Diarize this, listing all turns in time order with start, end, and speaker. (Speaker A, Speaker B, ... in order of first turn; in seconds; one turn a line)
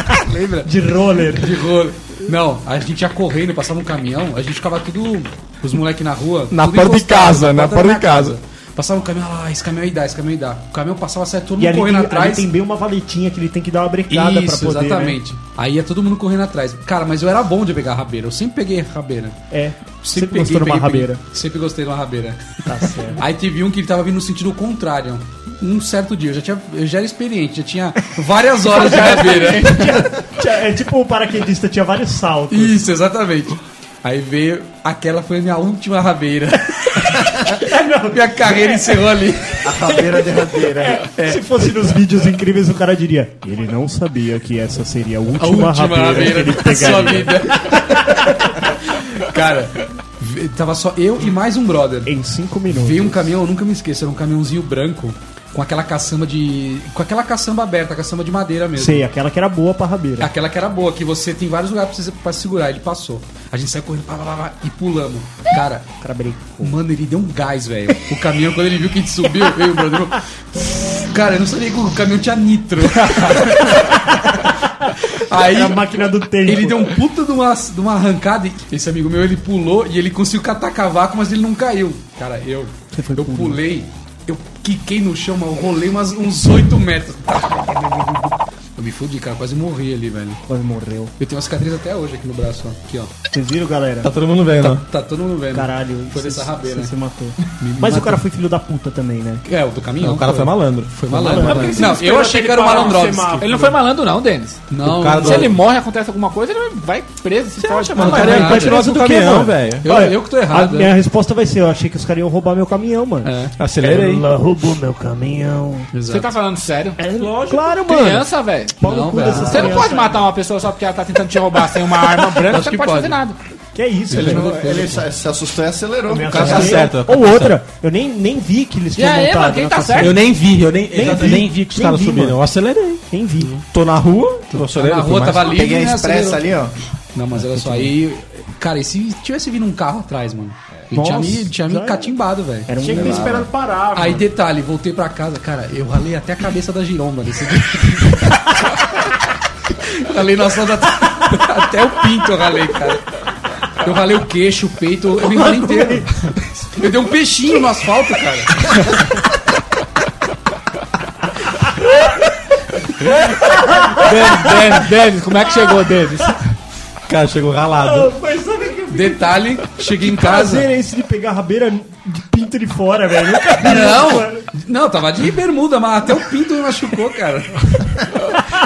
Speaker A: 0.2-0.7
Speaker B: 0.7-1.5
Speaker A: 1.3-12.5
Speaker C: 6.5-8.4
Speaker B: 11.6-15.2
Speaker A: 14.1-19.4
Speaker B: 19.5-21.2
Speaker A: 20.0-30.1
Speaker B: 22.7-23.2
Speaker B: 28.7-32.8
Speaker A: 32.5-37.5
Speaker B: 37.2-39.0
Speaker A: 38.1-39.7
Speaker D: 39.6-41.0
Speaker B: 40.9-48.3
Speaker A: 41.2-41.4
Speaker A: 45.4-48.2
Speaker A: 48.9-52.1
Speaker B: 52.1-53.3
Speaker A: 52.7-59.1
Speaker B: 58.8-60.3
Speaker A: 60.2-66.0
Speaker B: 66.0-66.7
Speaker A: 66.6-74.0
Speaker A: 75.1-90.4
Speaker B: 75.3-76.9
Speaker B: 82.9-83.6
Speaker B: 90.5-91.1
Speaker A: 91.2-93.1
Speaker B: 93.3-94.1
Speaker C: 94.0-94.8
Speaker A: 94.6-96.9
Speaker B: 95.5-99.4
Speaker A: 97.5-98.2
Speaker A: 99.5-103.5
Speaker C: 100.0-101.8
Speaker B: 101.2-101.8
Speaker E: 101.5-102.0
Speaker F: 101.6-103.8
Speaker E: 102.6-108.5
Speaker A: 104.7-105.6
Speaker C: 104.8-105.6
Speaker C: 107.6-109.9
Speaker A: 108.0-108.8
Speaker B: 108.0-113.3
Speaker A: 109.8-110.9
Speaker A: 113.2-113.5
Speaker C: 113.6-114.3
Speaker B: 114.1-115.7
Speaker A: 115.9-116.4
Speaker E: 116.1-117.0
Speaker B: 117.0-118.3
Speaker F: 117.2-117.6
Speaker E: 117.8-123.4
Speaker B: 118.8-120.3
Speaker A: 118.8-119.9
Speaker A: 122.2-123.2
Speaker B: 123.8-124.7
Speaker A: 124.1-125.0
Speaker D: 124.1-126.8
Speaker B: 126.1-130.2
Speaker C: 126.3-127.6
Speaker E: 129.0-130.2
Speaker C: 130.0-133.0
Speaker B: 130.9-132.4
Speaker B: 133.1-133.6
Speaker C: 133.5-135.5
Speaker A: 134.5-136.4
Speaker D: 135.3-136.8
Speaker A: 137.2-143.2
Speaker C: 137.4-137.9
Speaker B: 140.9-142.1
Speaker B: 142.7-143.5
Speaker F: 142.8-144.3
Speaker D: 142.9-143.4
Speaker A: 144.0-148.6
Speaker A: 149.8-153.0
Speaker A: 153.8-158.7
Speaker B: 155.3-156.1
Speaker E: 164.0-166.5
Speaker C: 167.1-168.2
Speaker B: 168.0-169.2
Speaker A: 168.9-170.7
Speaker B: 169.9-174.4
Speaker A: 173.6-178.2